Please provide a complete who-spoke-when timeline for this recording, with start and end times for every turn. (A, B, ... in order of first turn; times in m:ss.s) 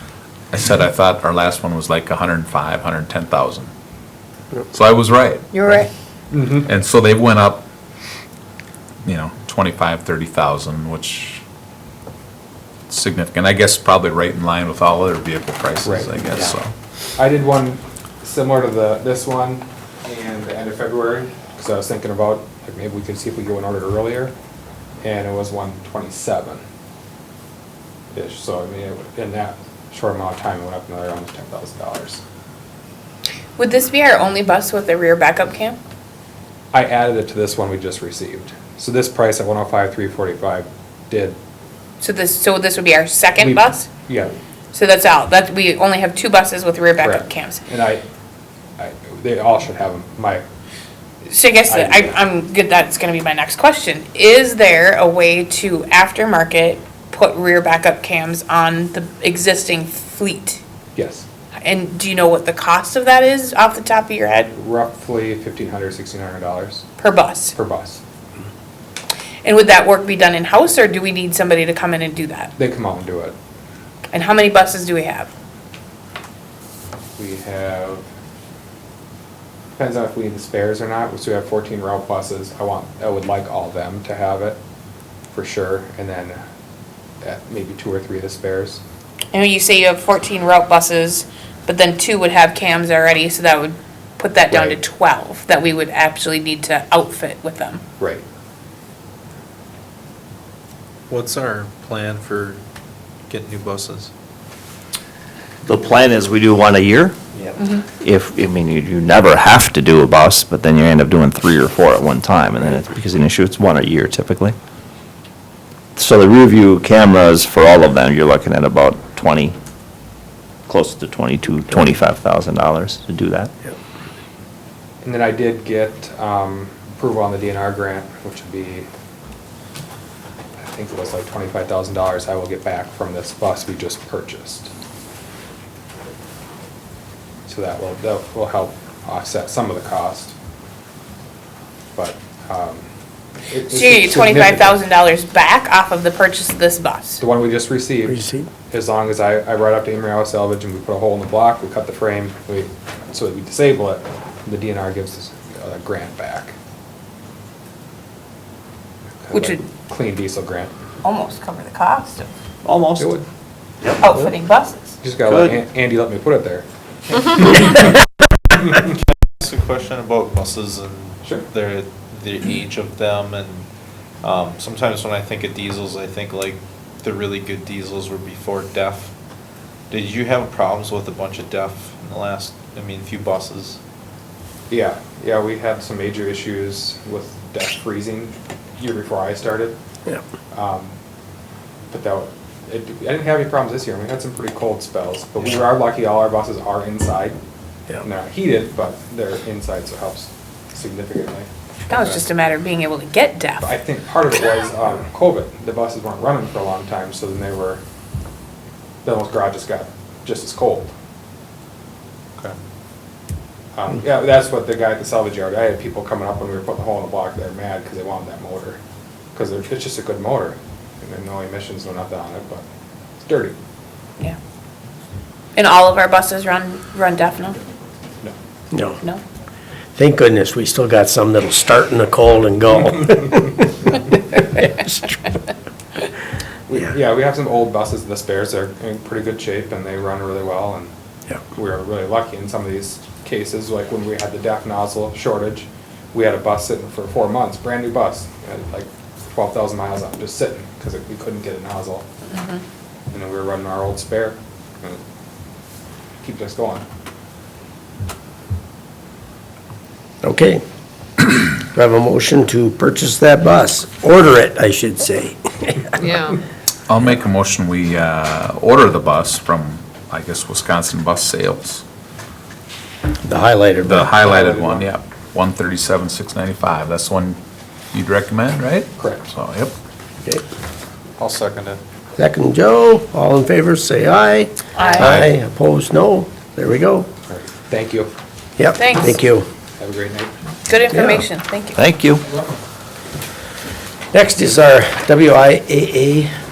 0:00.5-0:03.7 A
0:04.7-0:05.6 A
0:05.5-0:05.9 B
0:06.3-0:06.7 C
0:06.6-0:07.6 A
0:09.0-0:11.4 A
0:12.9-0:16.7 A
0:15.8-0:16.5 C
0:17.2-0:24.3 C
0:25.0-0:26.6 C
0:28.1-0:32.2 C
0:33.6-0:35.8 B
0:36.7-0:41.4 C
0:42.0-0:43.9 B
0:43.4-0:44.3 C
0:44.7-0:47.6 B
0:47.0-0:48.0 C
0:48.8-0:50.4 C
0:51.2-1:00.6 B
0:51.7-0:52.2 C
1:01.0-1:01.2 C
1:01.6-1:04.5 B
1:04.5-1:06.8 C
1:07.0-1:07.5 B
1:07.5-1:08.0 C
1:09.4-1:12.5 B
1:12.6-1:13.3 C
1:14.1-1:15.3 B
1:17.2-1:18.0 C
1:19.8-1:24.6 C
1:25.3-1:26.4 C
1:27.2-1:28.8 C
1:29.3-1:37.8 B
1:34.5-1:34.8 C
1:41.1-1:42.6 D
1:43.3-1:44.1 D
1:45.6-1:47.2 E
1:48.0-1:54.5 E
1:56.0-1:59.5 E
2:00.7-2:03.5 E
2:05.0-2:08.9 C
2:10.6-2:14.7 C
2:17.5-2:20.3 C
2:22.0-2:22.8 C
2:23.5-2:24.8 C
2:23.7-2:27.2 B
2:27.2-2:28.2 C
2:28.0-2:28.5 F
2:28.7-2:36.5 C
2:39.2-2:40.7 C
2:39.3-2:39.6 B
2:41.0-2:42.3 B
2:42.6-2:43.1 E
2:43.0-2:43.2 C
2:44.0-2:44.9 B
2:45.0-2:46.6 C
2:45.3-2:45.5 E
2:47.2-2:47.9 C
2:49.3-2:53.6 D
2:51.2-2:51.5 C
2:54.2-2:59.1 D
2:59.9-3:03.8 D
3:04.7-3:09.8 C
3:10.5-3:10.9 C
3:11.9-3:17.4 C
3:18.0-3:22.2 C
3:21.9-3:23.7 B
3:23.6-3:27.8 C
3:29.0-3:30.9 C
3:33.7-3:38.8 C
3:39.3-3:42.6 C
3:43.2-3:43.6 C
3:45.6-3:47.6 B
3:48.7-3:49.0 F
3:50.0-3:53.9 F
3:54.5-3:55.2 F
3:56.7-4:00.9 C
4:01.5-4:12.0 C
4:12.3-4:12.6 B
4:13.1-4:15.0 C
4:16.2-4:16.8 C
4:20.2-4:20.6 F
4:21.2-4:26.1 F
4:26.9-4:31.8 A
4:33.2-4:34.1 F
4:33.8-4:37.4 A
4:34.2-4:34.9 C
4:37.9-4:39.7 A
4:39.0-4:39.2 C
4:41.2-4:41.8 D
4:42.2-4:47.1 F
4:44.8-4:45.2 B
4:45.0-4:45.2 E
4:47.3-4:48.1 C
4:48.6-4:49.5 F
4:48.8-4:49.2 B
4:49.8-4:50.3 C
4:50.6-4:51.8 B
4:50.9-4:51.2 F
4:51.8-4:52.2 E
4:54.1-4:56.3 F